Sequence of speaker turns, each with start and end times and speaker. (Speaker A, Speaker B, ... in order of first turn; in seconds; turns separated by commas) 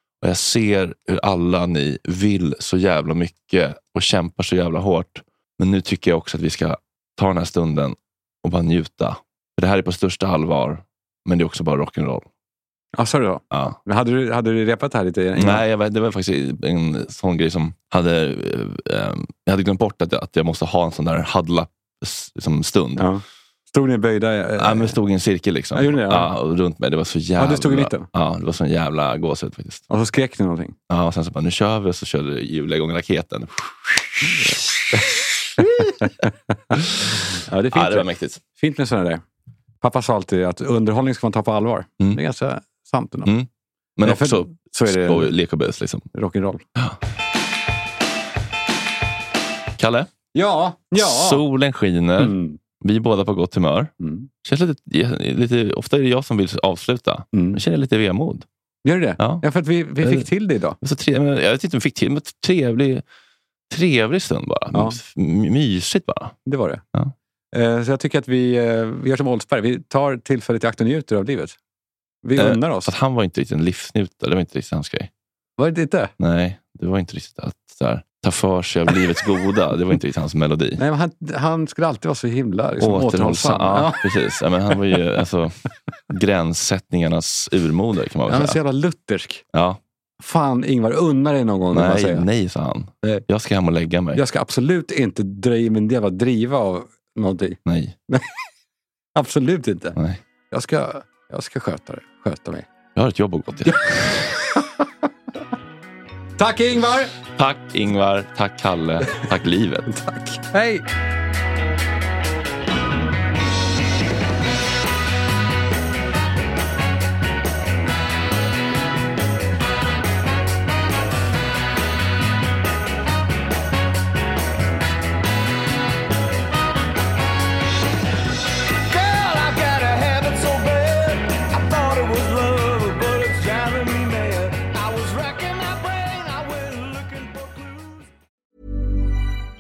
Speaker A: 0.2-12.3, Speaker B: 13.0-15.6, Speaker A: 13.5-13.8, Speaker A: 15.4-23.1, Speaker B: 23.0-25.0, Speaker A: 24.6-29.9, Speaker B: 25.7-26.3, Speaker B: 27.4-28.1, Speaker B: 29.9-30.8, Speaker A: 30.9-36.1, Speaker B: 34.4-35.0, Speaker B: 35.6-36.1, Speaker B: 36.7-39.2, Speaker A: 37.7-38.4, Speaker B: 39.8-43.3, Speaker A: 43.3-46.1, Speaker B: 44.0-45.3, Speaker B: 46.1-46.6, Speaker A: 49.8-50.1, Speaker B: 50.3-51.4, Speaker A: 51.0-53.9, Speaker B: 52.2-52.6, Speaker B: 54.0-54.3, Speaker A: 54.4-58.5, Speaker B: 57.3-57.6, Speaker B: 58.8-60.8, Speaker A: 59.2-59.5, Speaker A: 60.0-60.3, Speaker A: 60.8-63.0, Speaker A: 63.7-66.4, Speaker B: 64.7-65.0, Speaker B: 66.5-66.8, Speaker B: 67.5-71.6, Speaker B: 72.2-72.9, Speaker A: 72.4-75.1, Speaker B: 75.6-76.1, Speaker A: 76.2-80.8, Speaker B: 80.8-84.8, Speaker A: 82.8-88.6, Speaker B: 88.3-89.4, Speaker A: 89.5-89.8, Speaker B: 90.2-92.3, Speaker A: 91.7-94.2, Speaker B: 94.1-98.3, Speaker A: 97.7-98.0, Speaker B: 99.2-100.0, Speaker B: 100.5-102.7, Speaker A: 103.0-104.4, Speaker B: 106.4-107.1, Speaker A: 107.4-109.9, Speaker B: 109.9-110.8, Speaker C: 128.8-138.1